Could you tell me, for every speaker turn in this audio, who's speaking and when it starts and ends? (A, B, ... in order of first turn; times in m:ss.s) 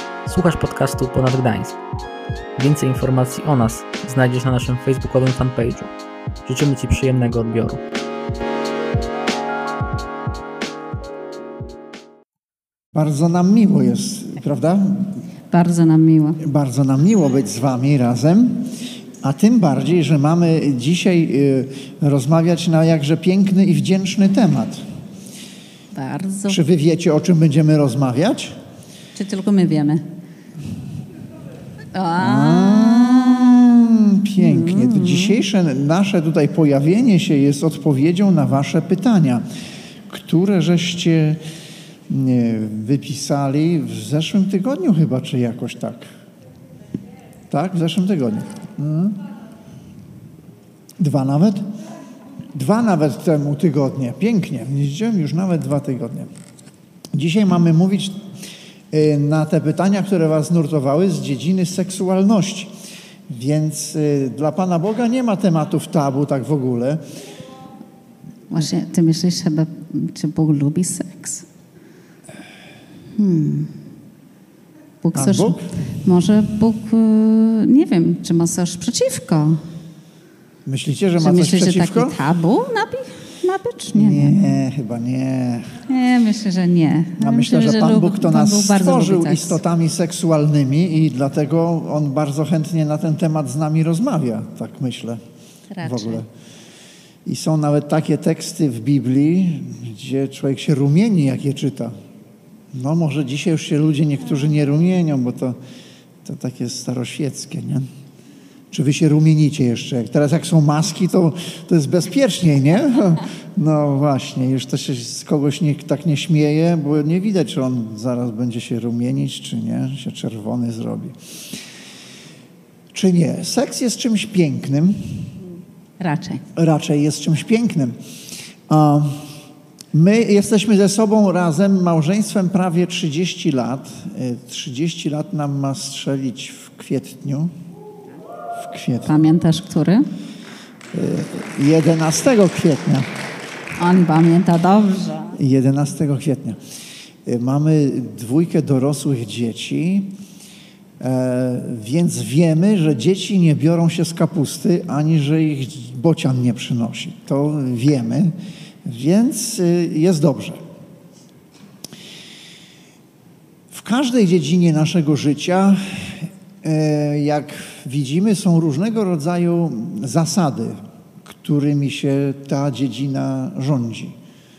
0:00.2-0:01.8 A
0:02.6-0:05.9 A
0:06.5-0:07.8 A
0:12.9-0:15.2 B
0:15.5-0:16.4 C
0:16.4-0:24.8 B
0:25.9-0:26.6 C
0:26.5-0:28.6 B
0:29.1-0:30.0 C
0:31.9-0:33.7 C
0:32.2-0:39.4 B
0:34.4-0:35.4 C
0:40.1-0:41.4 B
0:42.1-0:46.0 B
0:47.5-0:49.2 B
0:51.0-0:51.6 B
0:52.5-0:56.3 B
0:57.1-0:58.3 B
0:58.9-1:02.7 B
1:03.3-1:07.0 B
1:08.5-1:11.5 C
1:13.2-1:13.8 C
1:15.0-1:19.6 C
1:15.1-1:15.7 B
1:20.7-1:22.2 B
1:21.2-1:24.4 C
1:23.9-1:25.8 B
1:25.9-1:29.6 C
1:27.2-1:35.2 B
1:35.7-1:36.2 C
1:35.8-1:36.3 B
1:37.2-1:42.0 B
1:42.7-1:45.6 B
1:46.2-1:47.9 B
1:48.7-2:01.6 B
2:02.9-2:05.4 B
2:06.0-2:06.4 C
2:06.6-2:08.0 B
2:08.7-2:09.3 B
2:09.9-2:17.5 B
2:18.5-2:19.2 B
2:19.0-2:20.0 C
2:20.9-2:23.1 B
2:23.8-2:25.4 C
2:25.3-2:26.6 B
2:27.2-2:30.1 B
2:31.0-2:40.6 B
2:43.7-2:54.2 B